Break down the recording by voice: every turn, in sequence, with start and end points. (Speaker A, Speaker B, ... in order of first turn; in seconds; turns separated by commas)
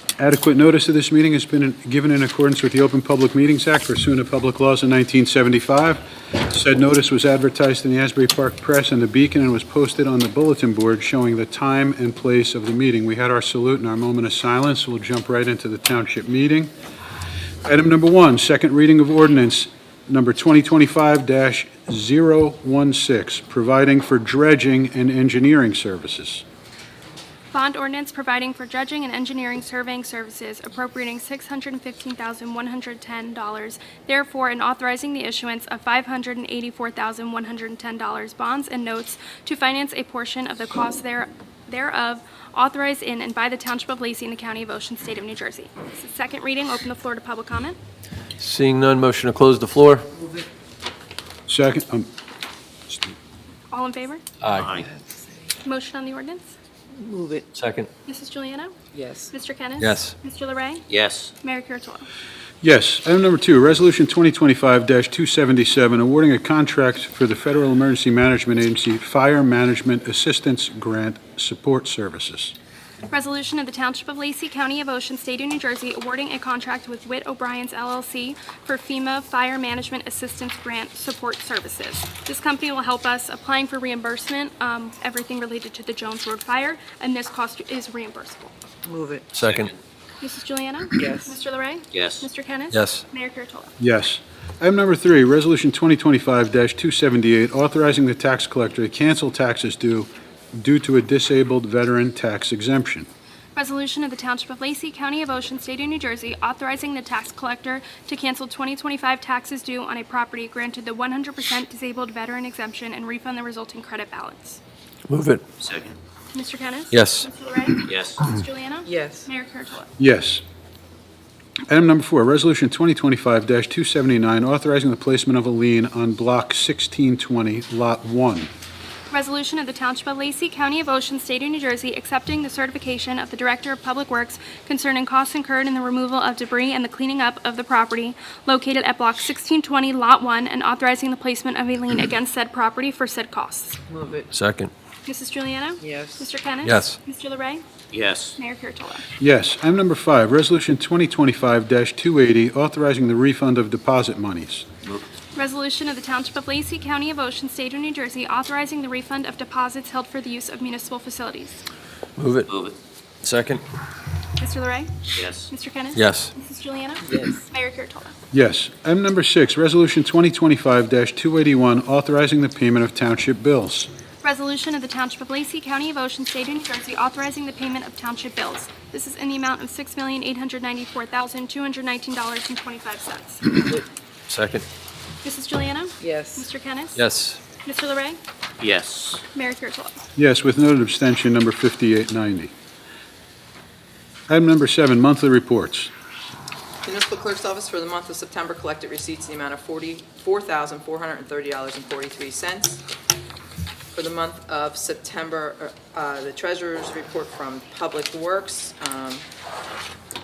Speaker A: 0.2-16.7, Speaker A: 17.6-26.4, Speaker B: 27.5-47.8, Speaker C: 48.4-50.1, Speaker A: 51.5-52.1, Speaker B: 53.7-54.2, Speaker C: 54.4-54.8, Speaker D: 54.5-54.9, Speaker B: 55.6-56.5, Speaker E: 56.9-57.5, Speaker C: 57.5-57.9, Speaker B: 58.1-58.8, Speaker E: 58.9-59.3, Speaker B: 59.3-60.9, Speaker C: 59.8-60.1, Speaker D: 60.9-61.3, Speaker B: 61.4-62.1, Speaker A: 62.6-72.5, Speaker B: 73.1-88.5, Speaker E: 88.9-89.2, Speaker C: 89.3-89.7, Speaker D: 89.4-89.7, Speaker B: 90.2-93.7, Speaker E: 91.0-91.4, Speaker D: 91.9-92.3, Speaker C: 92.7-93.0, Speaker A: 93.8-103.1, Speaker B: 103.5-114.6, Speaker C: 115.1-115.4, Speaker D: 115.6-116.0, Speaker B: 116.3-119.9, Speaker C: 116.9-117.3, Speaker D: 117.9-118.2, Speaker E: 118.9-119.2, Speaker A: 120.0-120.4, Speaker A: 121.7-128.5, Speaker B: 129.1-143.8, Speaker E: 143.9-144.3, Speaker C: 144.3-144.7, Speaker B: 145.1-147.6, Speaker E: 145.8-146.3, Speaker C: 146.7-147.0, Speaker D: 147.9-148.4, Speaker B: 148.4-149.1, Speaker A: 149.2-154.7, Speaker B: 155.3-161.6, Speaker C: 162.2-162.5, Speaker D: 162.5-162.8, Speaker C: 163.2-163.6, Speaker B: 164.4-168.1, Speaker D: 165.1-165.5, Speaker C: 166.0-166.3, Speaker A: 168.3-173.9, Speaker B: 174.2-183.6, Speaker C: 184.3-184.7, Speaker B: 185.2-187.0, Speaker E: 186.0-186.5, Speaker C: 187.0-187.4, Speaker B: 187.6-188.2, Speaker D: 188.6-189.2, Speaker B: 189.3-190.0, Speaker A: 190.2-192.5, Speaker A: 194.3-195.9, Speaker F: 196.8-202.8, Speaker F: 203.9-209.2